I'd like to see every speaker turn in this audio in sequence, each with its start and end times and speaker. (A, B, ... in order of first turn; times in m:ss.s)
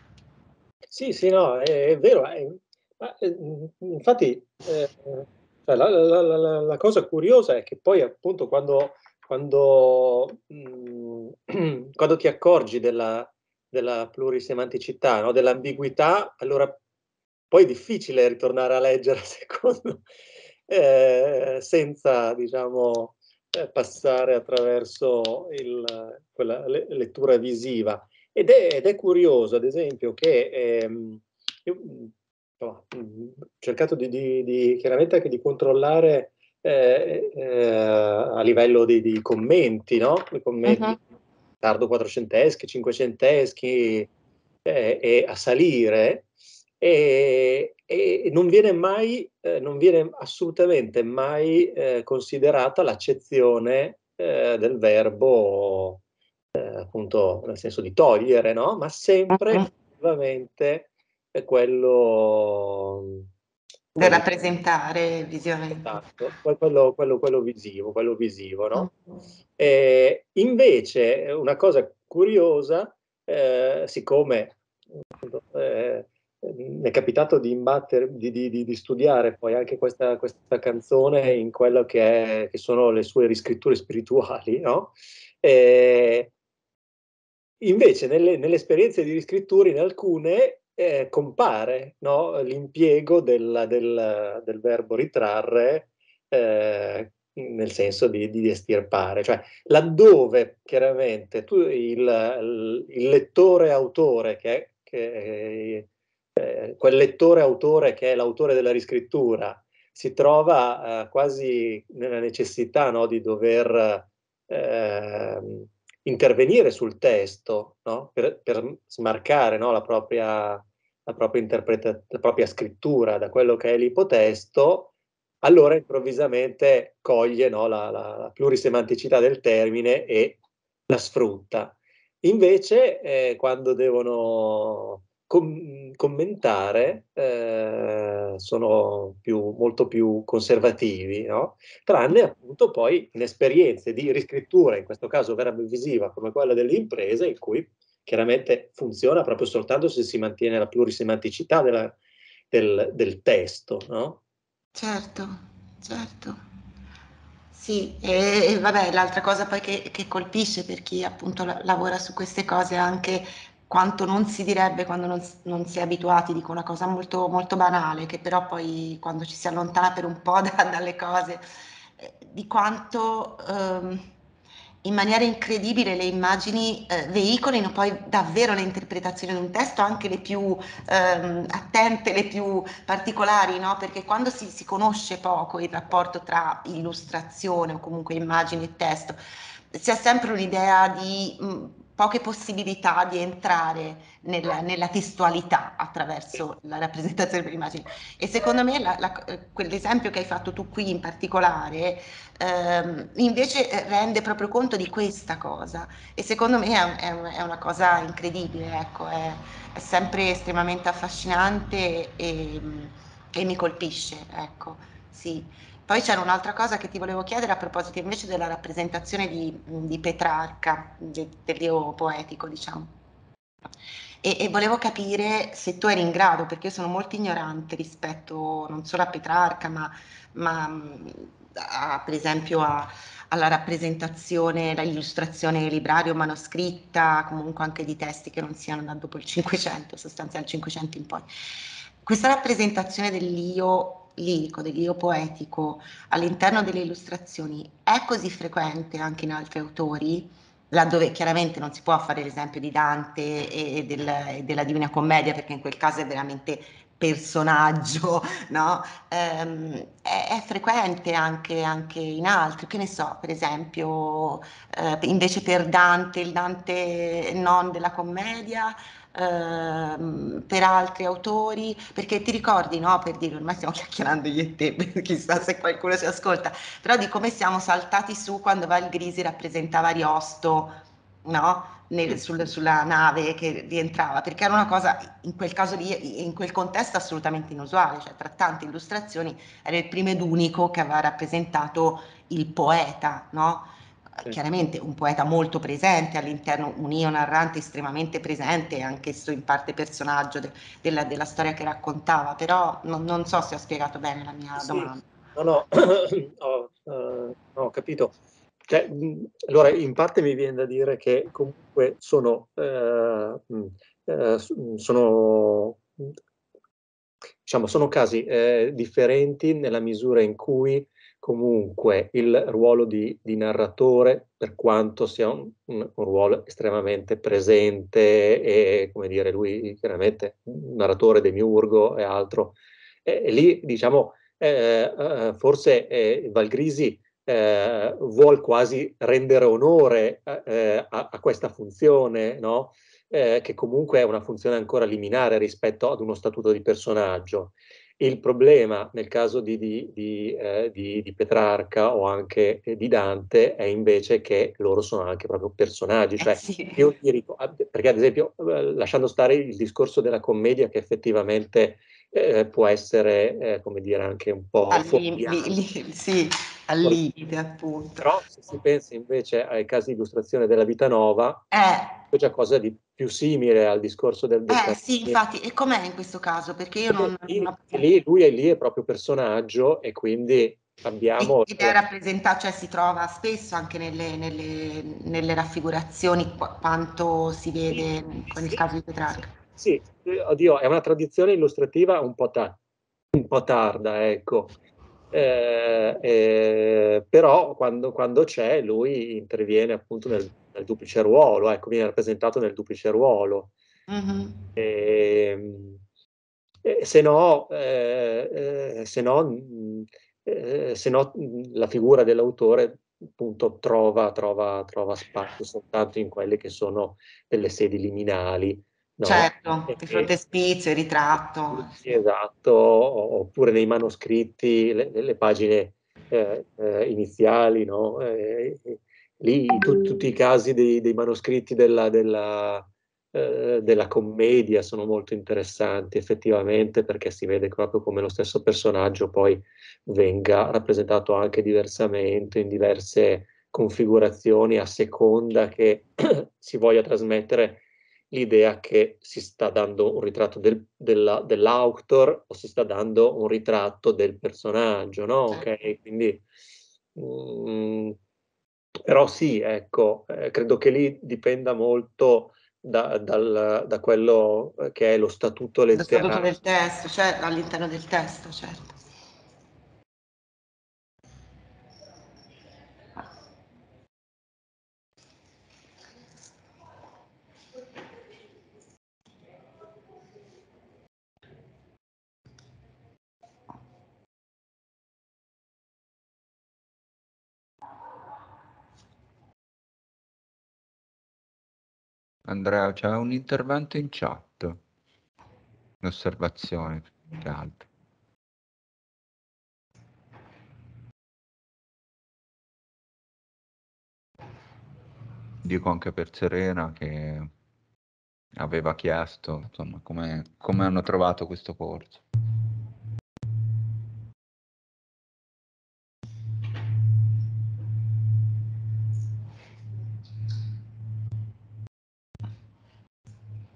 0:00.9-0:16.8 A
0:17.5-0:20.0 A
0:20.7-0:41.0 A
0:40.6-0:41.0 B
0:41.6-0:44.1 A
0:44.6-0:46.3 A
0:46.8-0:56.0 A
0:56.5-1:03.2 A
0:59.3-0:59.7 B
1:03.9-1:04.6 A
1:04.0-1:06.0 B
1:05.7-1:08.9 A
1:09.6-1:14.6 A
1:15.2-1:26.3 A
1:27.6-2:04.9 A
2:05.4-2:10.4 A
2:10.9-2:32.0 A
2:32.5-2:34.2 A
2:34.7-2:36.4 B
2:37.5-2:51.4 B
2:52.0-2:54.1 B
2:54.8-3:09.2 B
3:09.7-3:42.9 B
3:44.2-4:01.3 B
4:02.0-4:53.7 B
4:54.2-5:05.0 B
5:04.6-5:08.2 A
5:08.7-5:16.1 A
5:17.4-6:05.5 A
5:56.2-5:56.9 B
6:04.7-6:08.0 B
6:08.0-6:11.4 A
6:11.5-6:12.0 B
6:12.1-6:15.2 A
6:14.5-6:17.8 B
6:16.9-6:21.8 A
6:21.2-6:29.3 B
6:27.7-6:28.6 A
6:29.4-6:32.6 A
6:33.1-6:34.6 A
6:35.1-6:43.5 A
6:43.9-6:44.5 B
6:44.6-6:45.8 A
6:46.6-7:00.1 A
6:59.0-7:01.7 B
7:01.5-7:36.2 A
7:36.9-7:38.0 A
7:38.8-7:46.3 A
7:45.7-7:48.8 B
8:12.2-8:14.6 C
8:15.8-8:17.6 C
8:25.4-8:27.3 C
8:28.3-8:32.0 C